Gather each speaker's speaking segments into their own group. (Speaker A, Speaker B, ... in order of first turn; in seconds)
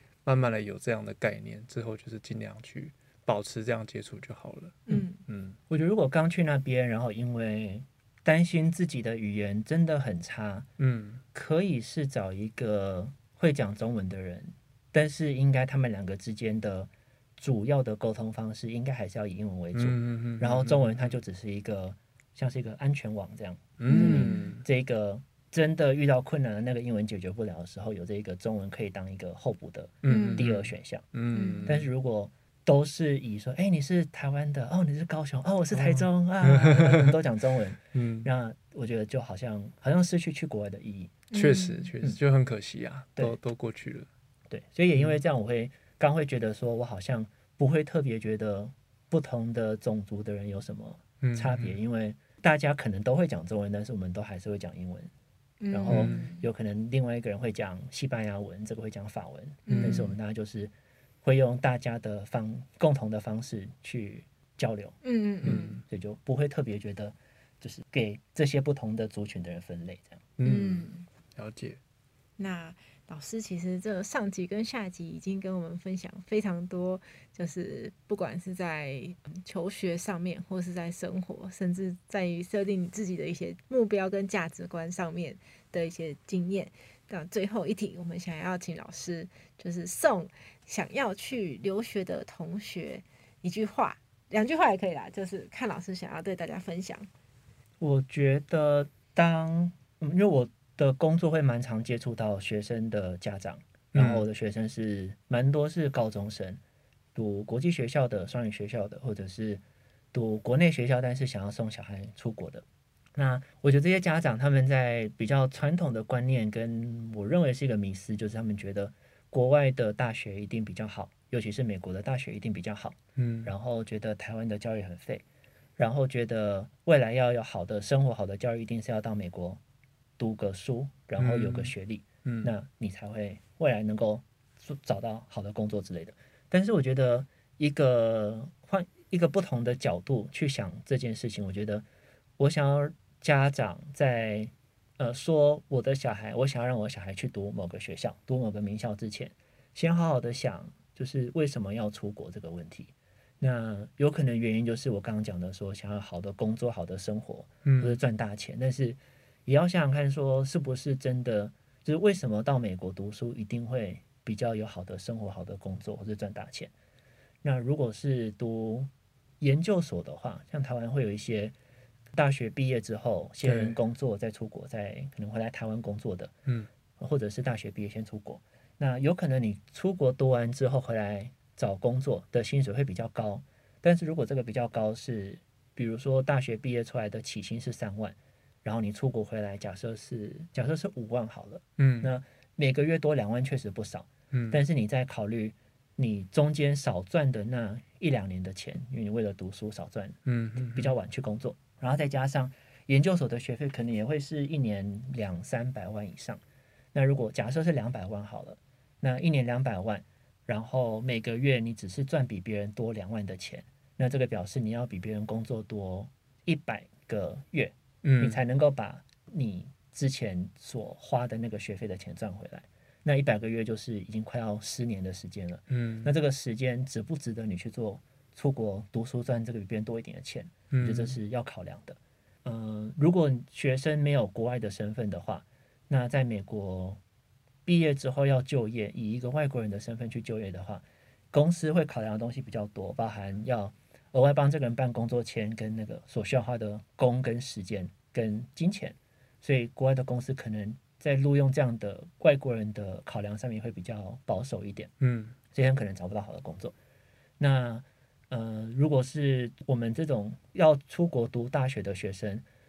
Speaker A: 0.2-5.6, 10.8-11.2, 19.7-21.1, 23.8-24.6, 30.0-31.9, 35.7-37.2, 37.9-38.3, 41.3-44.1, 51.2-51.8, 55.9-56.2, 59.7-60.0, 65.4-65.8, 70.4-71.8, 103.9-104.2, 123.2-123.5, 131.2-131.7, 132.2-132.5, 157.6-158.0, 173.4-173.8, 191.8-192.1, 194.3-194.6, 200.2-200.9, 218.0-218.4, 225.7-226.1, 230.7-231.2, 255.0-255.3
Speaker B: 4.9-5.2, 23.9-24.5, 30.1-30.4, 31.3-31.6, 41.3-41.9, 55.6-56.5, 59.6-60.1, 65.0-65.8, 70.4-71.0, 72.4-97.1
Speaker C: 5.7-10.7, 11.3-31.1, 31.6-41.2, 44.5-55.1, 55.7-70.3, 97.8-106.6, 107.1-109.6, 110.1-112.6, 113.1-125.2, 125.8-129.6, 130.2-141.8, 142.4-166.7, 167.4-171.5, 172.1-176.3, 177.0-200.2, 200.7-206.4, 206.9-237.0, 237.7-254.9, 255.5-256.7, 257.4-262.4